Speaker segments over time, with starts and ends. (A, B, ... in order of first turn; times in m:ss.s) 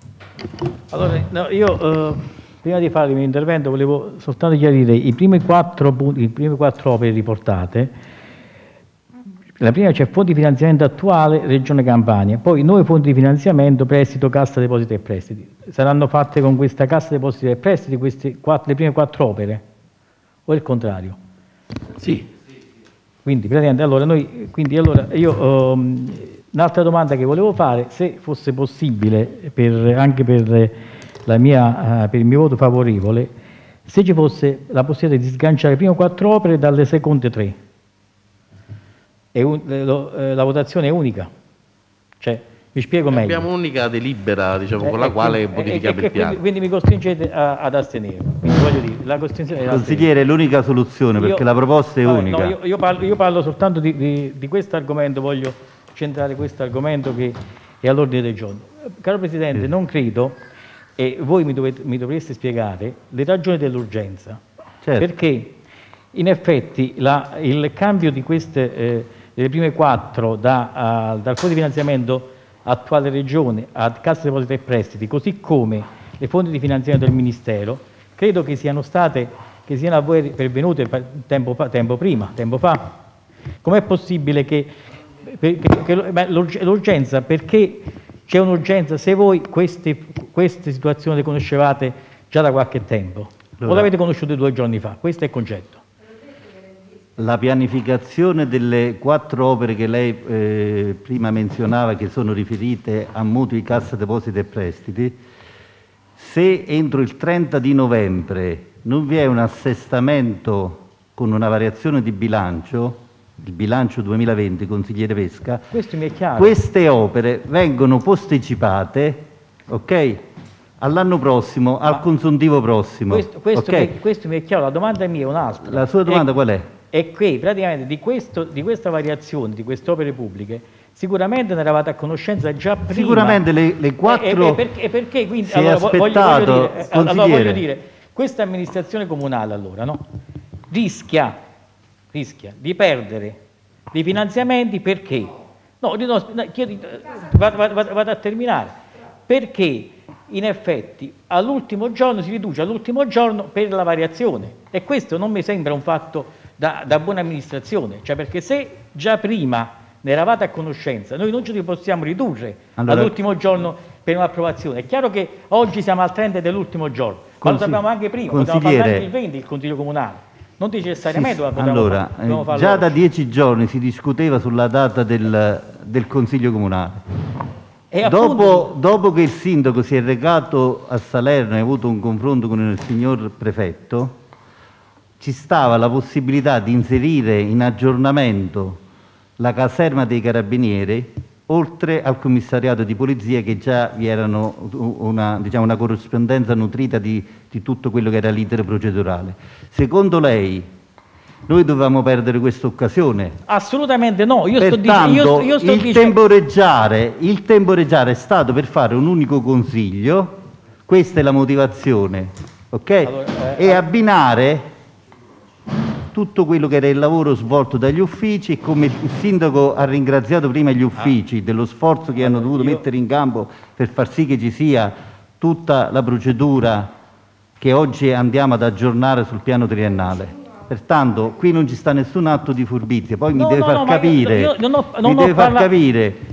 0:00.9-0:07.9 A
0:09.6-0:19.6 A
0:20.5-0:21.2 A
0:22.0-0:22.2 B
0:23.2-0:30.7 A
0:31.2-0:33.3 A
0:33.8-0:37.6 A
0:39.3-0:41.3 A
0:42.2-0:43.4 A
0:43.1-0:46.4 B
0:44.8-0:50.0 A
0:49.7-0:52.6 C
0:51.2-0:51.4 A
0:52.0-1:00.4 A
1:01.0-1:04.4 A
1:04.8-1:05.1 C
1:05.0-1:05.5 A
1:06.1-1:22.9 A
1:23.6-1:24.7 A
1:25.2-1:35.8 A
1:33.6-1:33.9 C
1:37.2-1:45.2 C
1:46.2-1:55.6 C
1:55.7-1:56.5 A
1:56.4-2:00.2 C
2:00.8-2:03.9 C
2:03.1-2:06.2 A
2:05.6-2:06.7 C
2:06.9-2:13.4 A
2:12.9-2:14.6 C
2:14.1-2:20.0 A
2:15.4-2:17.6 C
2:20.7-2:21.4 A
2:22.1-2:23.4 A
2:23.9-2:28.7 A
2:29.3-2:52.9 A
2:42.8-2:43.1 C
2:47.4-2:49.0 C
2:51.1-2:57.0 C
2:57.9-2:58.7 A
2:58.0-3:04.1 C
3:05.2-3:08.8 C
3:09.4-3:20.7 C
3:21.5-3:23.4 C
3:23.5-3:26.2 A
3:24.6-3:30.3 C
3:30.9-3:34.6 C
3:33.0-3:33.8 A
3:36.1-3:46.9 C
3:42.2-3:42.8 A
3:47.6-3:56.2 C
3:53.3-3:55.7 A